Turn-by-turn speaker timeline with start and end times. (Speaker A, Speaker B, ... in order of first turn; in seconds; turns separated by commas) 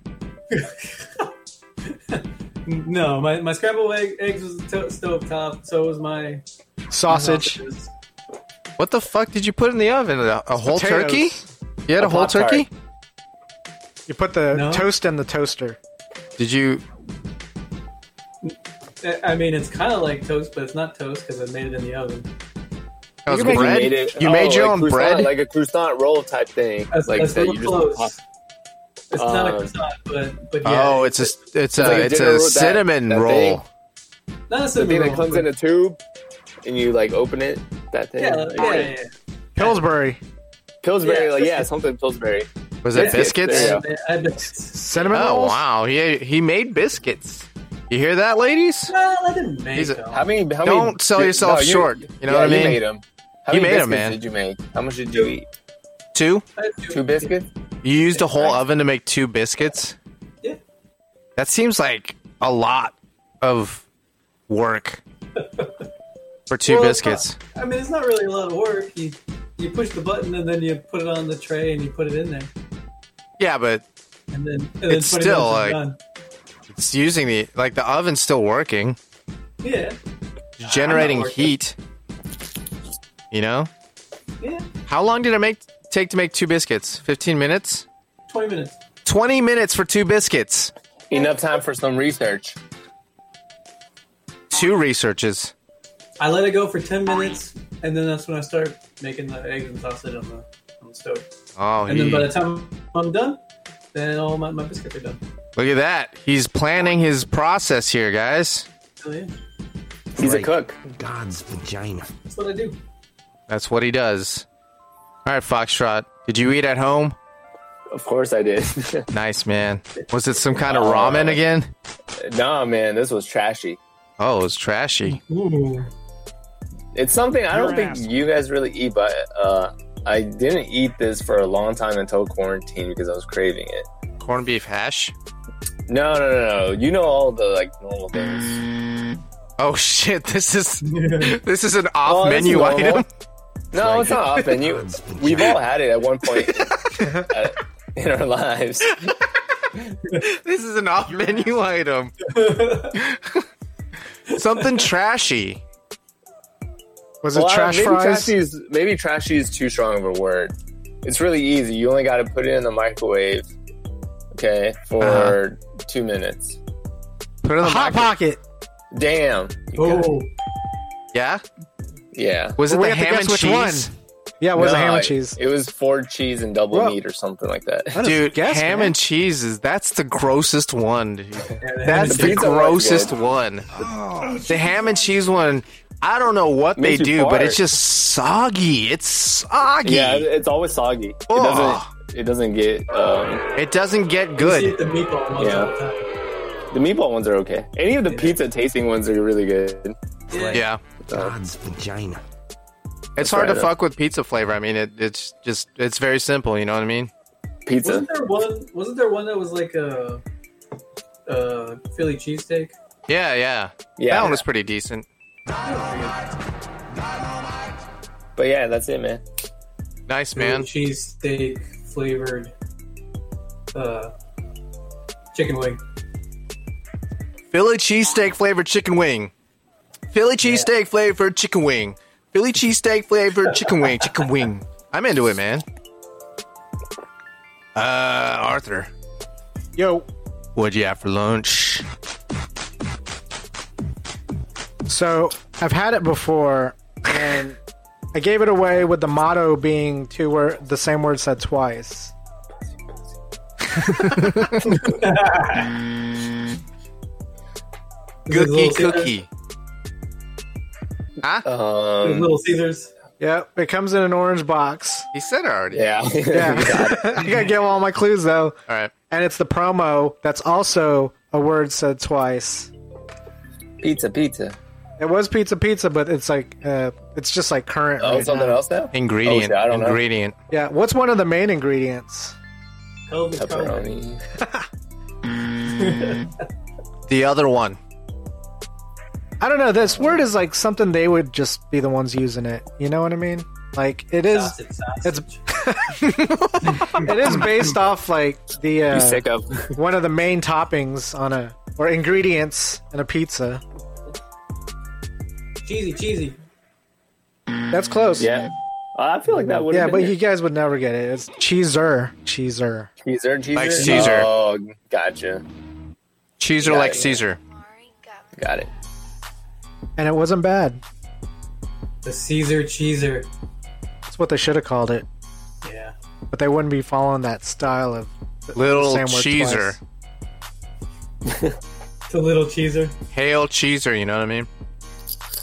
Speaker A: 0.5-1.3, Speaker A: 1.9-6.4, Speaker B: 6.9-7.6, Speaker A: 7.1-7.9, Speaker C: 8.8-12.7, Speaker B: 10.6-11.4, Speaker D: 12.0-12.7, Speaker B: 14.1-15.8, Speaker A: 14.5-14.9, Speaker C: 16.4-16.8, Speaker A: 18.4-22.3, Speaker C: 23.2-25.3, Speaker B: 23.3-23.9, Speaker D: 23.3-28.1, Speaker A: 26.9-28.2, Speaker A: 29.1-31.4, Speaker D: 29.1-29.7, Speaker C: 30.6-33.7, Speaker D: 31.8-33.6, Speaker A: 34.5-35.5, Speaker D: 34.8-36.0, Speaker D: 36.6-38.9, Speaker A: 38.2-39.8, Speaker B: 39.6-40.2, Speaker D: 40.8-43.9, Speaker A: 41.0-41.7, Speaker C: 42.8-43.8, Speaker A: 43.0-45.1, Speaker B: 44.8-45.6, Speaker C: 45.1-48.9, Speaker A: 48.9-50.2, Speaker C: 49.8-50.0, Speaker D: 50.1-55.5, Speaker C: 50.6-52.8, Speaker C: 53.5-54.2, Speaker C: 56.1-56.5, Speaker A: 56.6-57.3, Speaker D: 56.9-57.5, Speaker C: 57.8-60.0, Speaker A: 58.2-58.5, Speaker C: 61.4-63.9, Speaker C: 64.5-65.0, Speaker A: 65.4-65.9, Speaker C: 66.5-67.4, Speaker A: 66.7-72.5, Speaker C: 73.4-73.8, Speaker A: 74.3-76.0, Speaker C: 74.9-75.8, Speaker C: 76.7-79.0, Speaker A: 79.6-80.0, Speaker C: 80.6-81.8, Speaker A: 80.6-81.5, Speaker C: 83.3-83.7, Speaker A: 84.4-84.7, Speaker C: 84.9-87.8, Speaker A: 88.3-88.8, Speaker C: 89.0-90.7, Speaker D: 91.1-92.6, Speaker C: 94.5-95.5, Speaker A: 96.2-101.2, Speaker C: 101.6-102.3, Speaker A: 101.9-103.4, Speaker A: 103.9-105.2, Speaker C: 105.6-108.7, Speaker A: 109.0-109.3, Speaker D: 110.2-110.8, Speaker E: 110.2-112.1, Speaker A: 112.3-112.8, Speaker C: 113.5-114.5, Speaker C: 115.2-117.2, Speaker D: 117.9-119.1, Speaker C: 119.1-121.7, Speaker D: 120.6-121.4, Speaker D: 122.2-123.8, Speaker C: 124.2-125.2, Speaker A: 125.1-125.9, Speaker D: 127.0-133.9, Speaker C: 134.2-135.1, Speaker D: 135.9-138.6, Speaker C: 139.6-143.1, Speaker A: 140.8-141.4, Speaker D: 142.1-143.1, Speaker D: 143.7-149.2, Speaker E: 143.8-145.6, Speaker C: 150.1-152.3, Speaker A: 152.3-153.0, Speaker C: 152.9-153.4, Speaker C: 154.3-155.6, Speaker B: 157.2-158.3, Speaker D: 157.3-163.5, Speaker D: 164.3-166.6, Speaker C: 165.0-165.4, Speaker C: 167.4-168.1, Speaker B: 167.6-168.4, Speaker D: 168.9-170.2, Speaker A: 169.8-170.3, Speaker C: 171.1-171.4, Speaker D: 172.1-172.6, Speaker C: 172.6-173.9, Speaker B: 172.7-173.9, Speaker B: 174.4-175.4, Speaker D: 174.6-178.0, Speaker B: 176.7-177.0, Speaker B: 177.9-179.0, Speaker C: 178.0-183.7, Speaker A: 181.6-182.6, Speaker D: 182.0-183.1, Speaker E: 183.7-184.5, Speaker C: 184.5-190.3, Speaker D: 186.8-187.6, Speaker D: 189.8-193.4, Speaker C: 191.3-191.9, Speaker C: 193.6-194.8, Speaker A: 194.4-196.1, Speaker D: 195.4-195.7, Speaker D: 196.7-200.0, Speaker A: 198.1-198.4, Speaker A: 200.3-200.7, Speaker C: 200.5-200.8, Speaker E: 201.1-202.2, Speaker D: 203.2-203.7, Speaker C: 203.2-207.1, Speaker D: 207.7-208.1, Speaker A: 207.8-210.2, Speaker A: 211.3-212.8, Speaker C: 213.1-215.1, Speaker D: 214.0-214.4, Speaker A: 215.7-216.2, Speaker D: 218.4-219.2, Speaker C: 220.1-220.7, Speaker A: 220.4-222.5, Speaker A: 223.7-224.1, Speaker A: 225.3-225.8, Speaker C: 227.5-229.3, Speaker C: 230.1-235.7, Speaker A: 230.4-230.7, Speaker C: 237.8-238.9, Speaker B: 239.8-240.1, Speaker C: 240.6-241.9, Speaker B: 244.9-247.6, Speaker B: 248.1-252.1, Speaker C: 253.8-254.6, Speaker A: 254.6-255.8, Speaker A: 258.3-259.1, Speaker C: 258.3-259.3, Speaker D: 261.4-262.4, Speaker A: 262.0-262.9, Speaker B: 263.2-265.1, Speaker C: 265.1-265.9, Speaker D: 265.7-267.2, Speaker B: 266.3-268.6, Speaker A: 267.2-267.5, Speaker B: 269.1-272.7, Speaker D: 273.8-274.6, Speaker B: 275.0-278.6, Speaker D: 278.0-280.0, Speaker C: 278.9-280.4, Speaker B: 280.5-282.4, Speaker A: 283.1-283.9, Speaker D: 283.4-284.2, Speaker A: 285.6-286.4, Speaker C: 287.1-287.8, Speaker B: 289.4-303.6, Speaker A: 294.3-295.4, Speaker C: 296.0-296.9, Speaker A: 296.6-297.7, Speaker D: 298.9-299.8, Speaker A: 305.6-306.4, Speaker B: 307.7-308.3, Speaker D: 308.2-310.1, Speaker B: 309.6-312.9, Speaker D: 313.0-315.4, Speaker C: 313.5-314.3, Speaker A: 313.8-314.1, Speaker C: 316.4-317.4, Speaker D: 316.6-317.2, Speaker D: 318.4-318.7, Speaker B: 320.0-320.8, Speaker A: 322.0-323.3, Speaker B: 324.1-325.1, Speaker A: 325.6-325.9, Speaker B: 326.3-329.8, Speaker C: 328.6-329.8, Speaker D: 331.3-331.6, Speaker A: 332.1-332.9, Speaker C: 333.1-334.5